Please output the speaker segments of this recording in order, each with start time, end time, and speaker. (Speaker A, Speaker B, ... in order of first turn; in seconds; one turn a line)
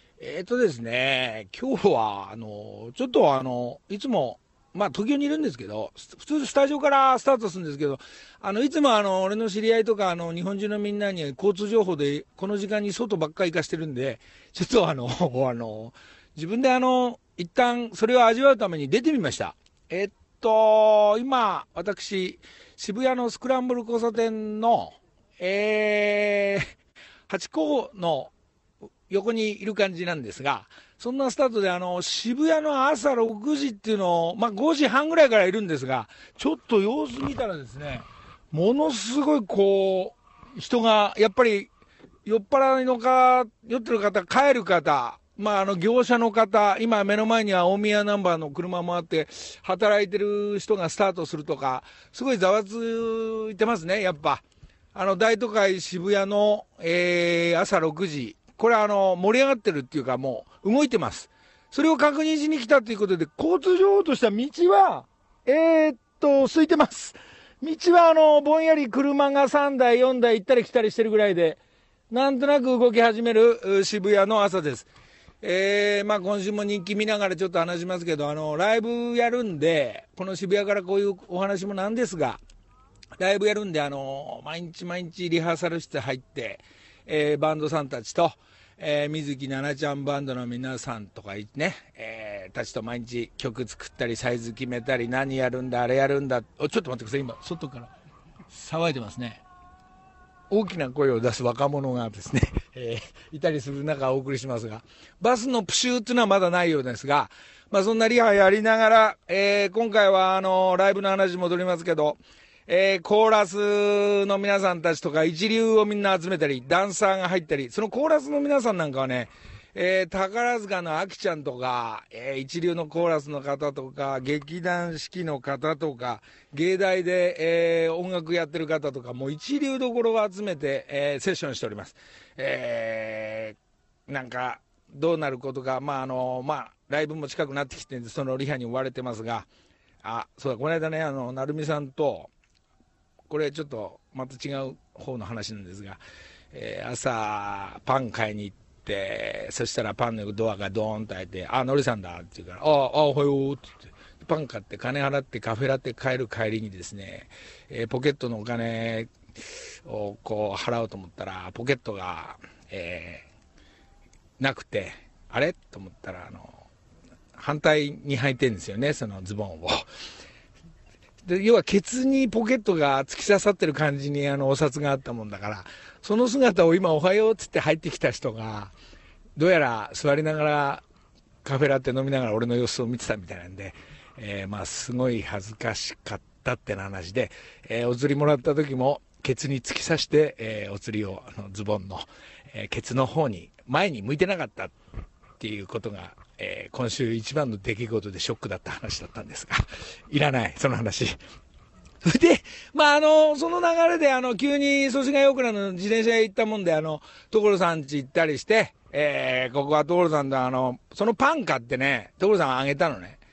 Speaker A: 0.2-26.7
Speaker A: 27.3-28.3
Speaker A: 29.1-41.7
Speaker A: 42.2-54.4
Speaker A: 54.9-74.9
Speaker A: 75.4-82.4
Speaker A: 83.2-97.9
Speaker A: 98.5-99.4
Speaker A: 100.5-133.6
Speaker A: 134.1-139.5
Speaker A: 140.0-142.3
Speaker A: 143.3-146.0
Speaker A: 146.5-159.1
Speaker A: 159.8-163.2
Speaker A: 164.4-166.6
Speaker A: 167.3-169.8
Speaker A: 171.2-178.7
Speaker A: 179.3-180.8
Speaker A: 181.4-194.7
Speaker A: 195.4-201.2
Speaker A: 202.0-213.2